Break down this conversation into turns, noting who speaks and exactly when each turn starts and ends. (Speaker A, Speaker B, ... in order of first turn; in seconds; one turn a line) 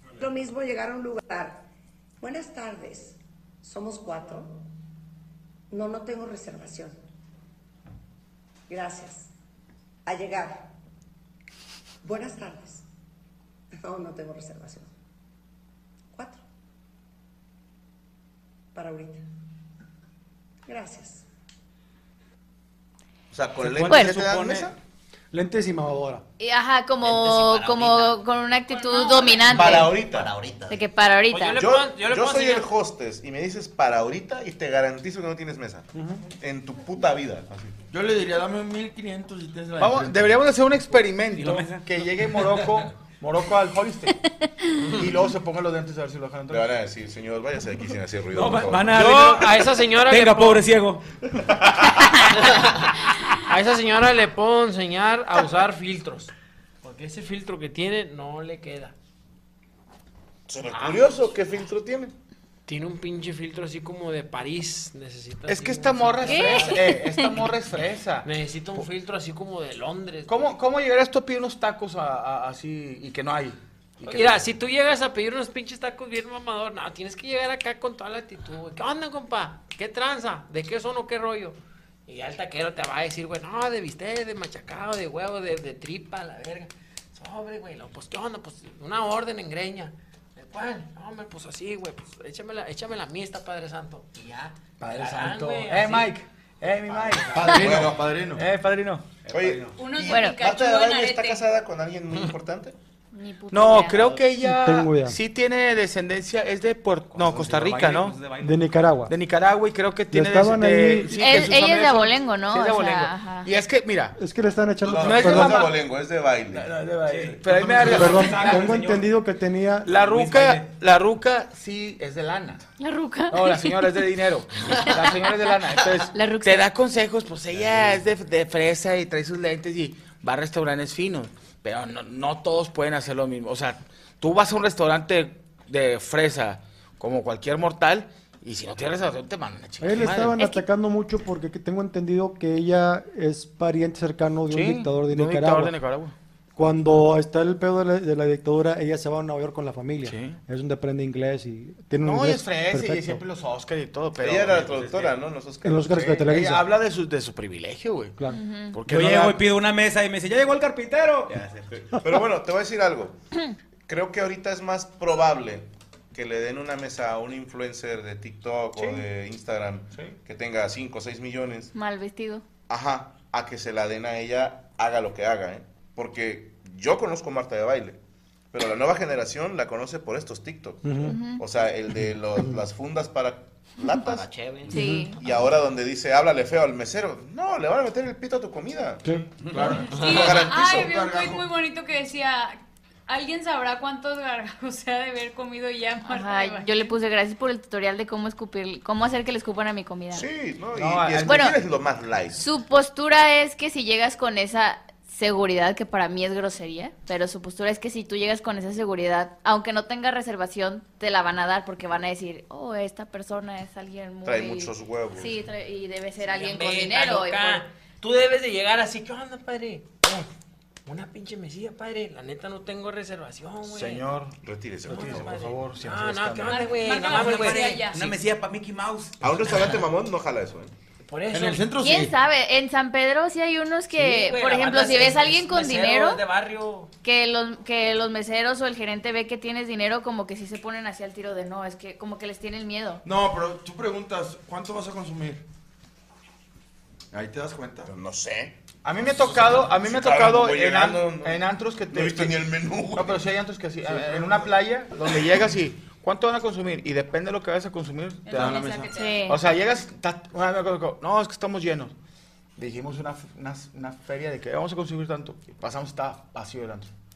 Speaker A: 0.2-1.7
Speaker A: 2.2-4.6
Speaker A: 5.7-7.0
Speaker A: 8.7-9.3
Speaker A: 10.1-10.7
Speaker A: 12.0-12.8
Speaker A: 13.8-14.9
Speaker A: 16.1-16.4
Speaker A: 18.7-19.2
Speaker A: 20.6-21.2
Speaker B: 23.3-24.7
Speaker C: 23.6-24.7
Speaker D: 23.9-24.1
Speaker E: 25.3-26.2
Speaker D: 26.4-30.0
Speaker F: 27.0-28.2
Speaker G: 28.7-29.6
Speaker B: 29.5-30.3
Speaker F: 29.5-30.8
Speaker D: 30.7-31.6
Speaker H: 31.3-32.7
Speaker B: 31.5-35.9
Speaker B: 36.4-37.7
Speaker I: 37.9-40.4
Speaker J: 39.8-44.1
Speaker C: 41.3-42.8
Speaker J: 44.9-46.7
Speaker B: 46.5-49.0
Speaker C: 48.3-51.0
Speaker H: 48.9-50.7
Speaker H: 53.3-56.3
Speaker H: 56.8-58.9
Speaker B: 60.5-62.1
Speaker H: 62.7-66.8
Speaker J: 65.5-68.3
Speaker D: 66.3-67.0
Speaker H: 68.2-70.5
Speaker J: 70.3-74.4
Speaker H: 74.0-81.5
Speaker H: 82.1-96.1
Speaker J: 94.8-97.8
Speaker I: 97.2-98.4
Speaker B: 97.5-98.0
Speaker J: 98.3-99.1
Speaker C: 99.2-99.8
Speaker B: 99.3-102.7
Speaker G: 99.8-101.4
Speaker D: 100.1-100.4
Speaker D: 103.1-104.2
Speaker J: 103.5-108.2
Speaker E: 104.4-105.2
Speaker C: 107.1-108.6
Speaker E: 108.4-109.1
Speaker J: 109.1-114.2
Speaker E: 110.1-111.2
Speaker D: 111.2-113.5
Speaker E: 114.2-115.7
Speaker J: 114.8-115.8
Speaker B: 114.8-116.7
Speaker J: 116.5-118.9
Speaker C: 117.1-119.1
Speaker E: 117.8-119.9
Speaker J: 119.8-122.7
Speaker C: 119.9-120.7
Speaker D: 122.8-124.0
Speaker J: 123.3-140.4
Speaker D: 124.8-126.7
Speaker C: 127.5-128.0
Speaker E: 139.8-145.7
Speaker D: 140.3-140.6
Speaker J: 144.5-146.1
Speaker E: 146.6-153.2
Speaker J: 150.0-150.4
Speaker J: 152.0-154.7
Speaker B: 154.2-156.0
Speaker C: 154.5-155.2
Speaker E: 155.6-156.7
Speaker J: 155.8-158.2
Speaker D: 158.2-158.8
Speaker J: 158.7-159.4
Speaker C: 158.8-162.0
Speaker B: 162.0-163.2
Speaker B: 163.9-171.7
Speaker J: 168.7-169.1
Speaker D: 171.7-172.4
Speaker B: 172.7-178.0
Speaker B: 178.5-184.3
Speaker E: 180.8-181.2
Speaker D: 181.0-181.4
Speaker F: 184.0-184.7
Speaker D: 184.7-185.2
Speaker E: 184.7-185.1
Speaker B: 185.2-189.1
Speaker E: 189.0-189.3
Speaker C: 189.4-189.7
Speaker I: 189.5-191.4
Speaker G: 189.7-196.9
Speaker B: 189.9-191.0
Speaker D: 196.0-200.2
Speaker B: 200.1-202.4
Speaker J: 200.7-201.5
Speaker D: 201.2-201.6
Speaker D: 202.3-217.6
Speaker B: 214.2-215.4
Speaker H: 216.2-220.3
Speaker H: 220.8-224.0
Speaker J: 223.7-224.3
Speaker B: 224.4-225.5
Speaker J: 224.9-226.8
Speaker H: 224.9-227.9
Speaker G: 226.5-228.2
Speaker C: 227.0-229.2
Speaker B: 229.2-230.7
Speaker H: 231.0-231.7
Speaker I: 231.3-232.2
Speaker D: 231.8-236.2
Speaker H: 234.0-236.9
Speaker D: 237.0-243.0
Speaker I: 243.0-245.4
Speaker I: 247.1-247.9
Speaker B: 247.8-248.5
Speaker J: 248.8-258.7
Speaker B: 249.5-253.3
Speaker G: 258.2-259.2
Speaker I: 258.3-258.9
Speaker D: 258.9-259.4
Speaker J: 259.2-261.9
Speaker J: 262.6-266.9